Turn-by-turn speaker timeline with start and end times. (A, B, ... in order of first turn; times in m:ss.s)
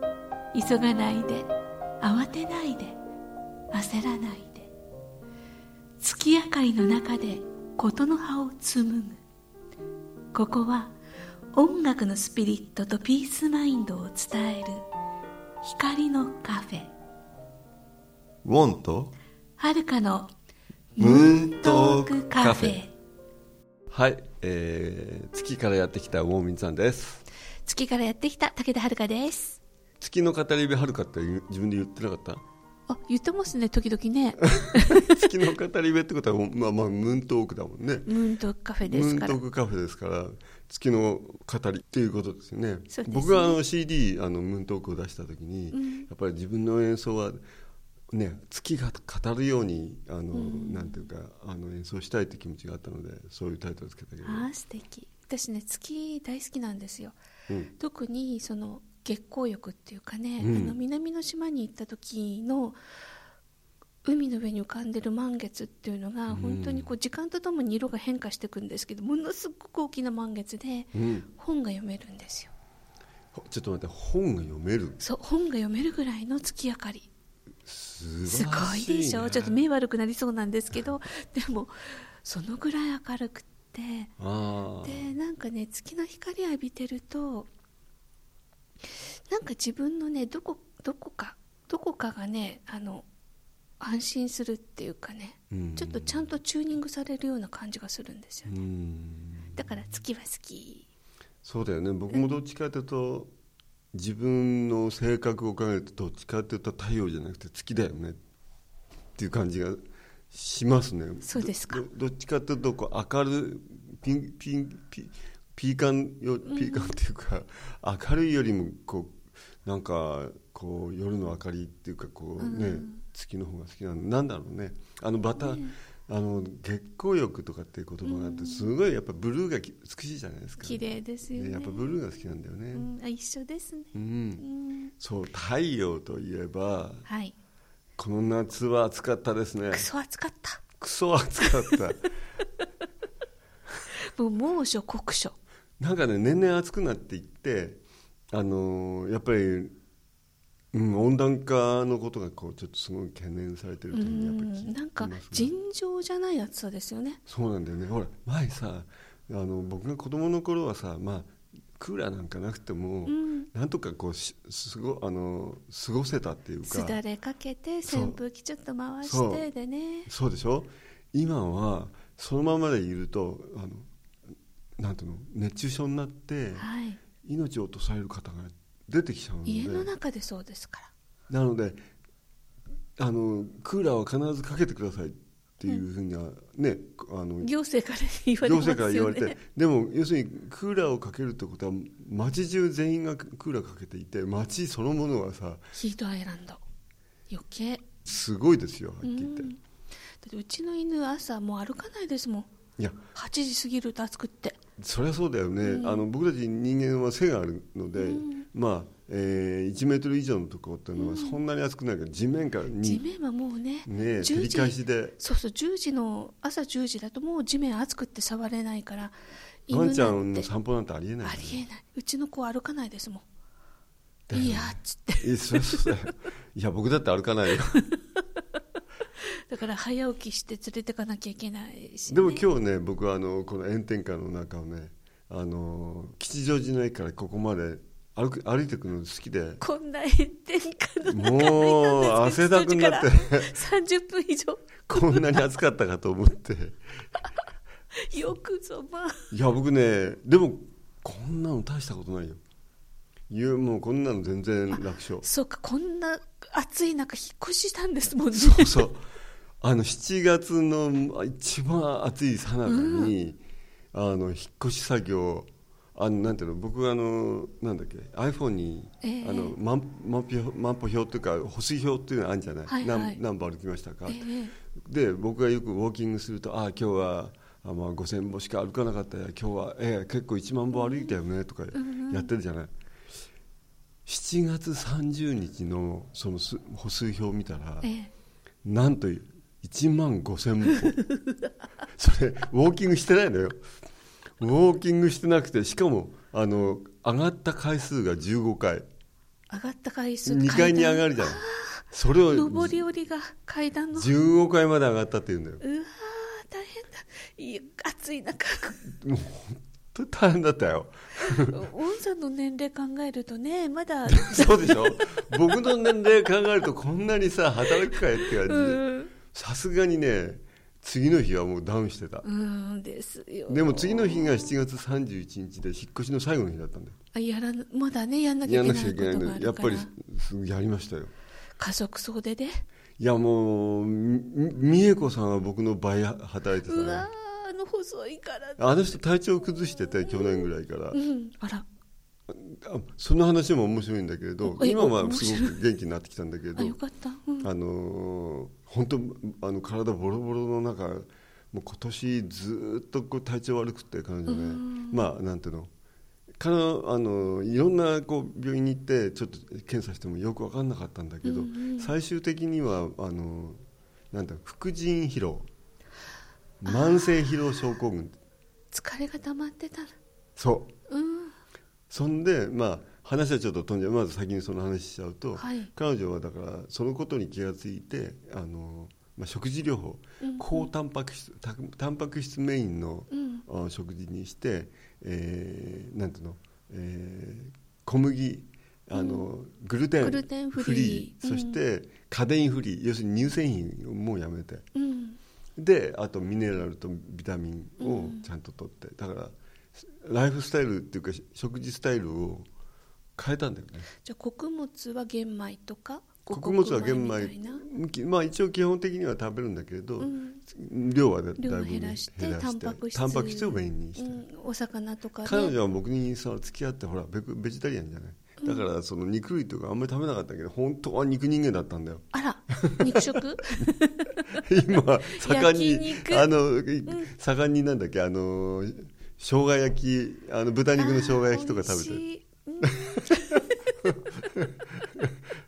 0:00.5-0:01.5 A
0:02.0-0:03.0 A
0:03.7-0:04.7 A
0:06.0-0:09.2 A
0:10.3-0:11.0 A
0:11.5-0:14.8 A
0:15.6-0:16.9 A
0:18.4-0:19.1 B
0:19.6-0:20.3 A
0:21.0-0:22.9 A
0:21.0-0:22.8 B
0:23.9-0:27.2 B
0:27.6-0:29.6 A
0:30.0-0:32.4 B
0:32.9-0:35.3 A
0:34.4-0:38.1 B
0:38.1-0:39.4 A
0:38.9-0:47.4 B
0:42.9-0:43.6 A
0:45.7-0:46.1 A
0:48.1-0:54.5 B
0:50.3-0:51.1 A
0:54.2-0:57.2 A
0:57.8-1:02.8 A
1:00.4-1:00.8 B
1:04.0-1:12.5 A
1:06.3-1:06.9 B
1:10.9-1:11.3 B
1:13.3-1:15.0 B
1:15.0-1:17.1 A
1:17.7-1:19.6 B
1:18.3-1:24.1 A
1:24.2-1:25.2 B
1:24.8-1:27.5 A
1:28.8-1:33.1 A
1:33.8-1:38.5 A
1:35.5-1:36.3 B
1:38.5-1:39.6 B
1:39.6-1:40.9 A
1:41.4-1:43.3 B
1:43.9-1:48.2 B
1:49.2-1:49.8 B
1:50.3-2:12.9 B
1:51.2-1:51.8 A
1:56.5-1:57.0 A
2:02.4-2:03.0 A
2:05.4-2:05.8 A
2:08.0-2:08.7 A
2:10.6-2:12.0 A
2:12.7-2:14.9 A
2:13.9-2:14.4 B
2:15.0-2:17.1 B
2:17.1-2:17.4 A
2:18.0-2:19.9 B
2:19.7-2:20.6 A
2:20.8-2:22.1 B
2:21.4-2:21.8 A
2:24.0-2:25.4 A
2:25.8-2:27.8 B
2:28.3-2:29.8 B
2:30.7-2:35.5 B
2:33.9-2:37.2 A
2:37.3-2:47.0 B
2:43.1-2:43.5 A
2:46.7-2:50.1 A
2:47.9-2:48.2 B
2:49.0-2:49.5 B
2:50.1-2:53.9 B
2:54.8-2:56.7 B
2:56.6-2:57.0 A
2:57.2-2:59.9 B
2:59.5-3:00.9 A
3:01.3-3:01.8 B
3:03.0-3:07.5 B
3:07.4-3:09.4 A
3:08.4-3:15.7 B
3:15.8-3:16.6 A
3:17.3-3:17.8 A
3:18.0-3:19.5 B
3:19.0-3:19.6 A
3:20.2-3:22.5 A
3:22.8-3:23.0 B
3:23.2-3:24.6 A
3:24.8-3:33.0 B
3:25.6-3:26.1 A
3:28.0-3:28.5 A
3:31.0-3:31.4 A
3:32.8-3:39.2 A
3:33.9-3:35.2 B
3:39.7-3:40.5 A
3:39.7-3:41.6 B
3:41.2-3:43.2 A
3:44.3-3:47.9 B
3:44.3-3:45.9 A
3:47.9-3:48.2 A
3:49.2-3:52.4 A
3:52.1-3:59.6 B
3:59.6-4:05.4 A
4:01.1-4:03.6 B
4:04.9-4:06.8 B
4:08.0-4:09.3 A
4:09.3-4:12.4 B
4:13.3-4:15.3 B
4:14.7-4:18.9 A
4:18.3-4:19.0 B
4:19.6-4:23.4 B
4:22.7-4:23.1 A
4:23.9-4:42.7 B
4:29.0-4:29.6 A
4:32.7-4:33.2 A
4:34.1-4:34.5 A
4:40.7-4:41.1 A
4:41.7-4:42.3 A
4:44.1-4:47.9 B
4:47.8-4:48.1 A
4:48.6-4:51.0 B
4:51.0-4:51.4 A
4:51.9-4:53.6 B
4:54.4-4:58.9 B
4:59.5-5:04.1 A
5:00.2-5:02.8 B
5:03.9-5:05.6 B
5:05.6-5:08.8 A
5:08.8-5:11.7 B
5:11.2-5:16.1 A
5:14.1-5:22.3 B
5:17.9-5:19.1 A
5:22.2-5:24.6 A
5:23.5-5:27.0 B
5:27.1-5:29.9 A
5:28.5-5:31.1 B
5:31.6-5:32.6 A
5:33.0-5:37.1 B
5:36.6-5:38.6 A
5:38.6-5:41.0 B
5:40.0-5:41.6 A
5:42.3-5:46.8 B
5:44.4-5:45.6 A
5:46.6-5:47.5 A
5:47.4-5:55.7 B
5:54.3-5:55.0 A
5:56.4-6:03.6 B
6:01.2-6:01.9 A
6:04.1-6:05.5 B
6:06.6-6:08.2 B
6:06.7-6:07.3 A
6:08.7-6:10.0 A
6:10.4-6:10.7 B
6:10.9-6:11.4 A
6:11.9-6:34.7 B
6:15.4-6:15.7 A
6:20.2-6:20.7 A
6:23.1-6:23.4 A
6:28.9-6:29.3 A
6:30.0-6:31.6 A
6:34.8-6:35.2 A
6:35.6-6:42.5 B
6:37.8-6:38.3 A
6:43.2-6:43.9 B
6:44.0-6:47.6 A
6:46.3-6:54.2 B
6:50.0-6:50.4 A
6:51.4-6:55.6 A
6:55.2-7:03.7 B
6:58.4-6:58.7 A
7:02.1-7:04.4 A
7:04.3-7:12.0 B
7:05.1-7:06.3 A
7:10.8-7:13.6 A
7:12.6-7:15.2 B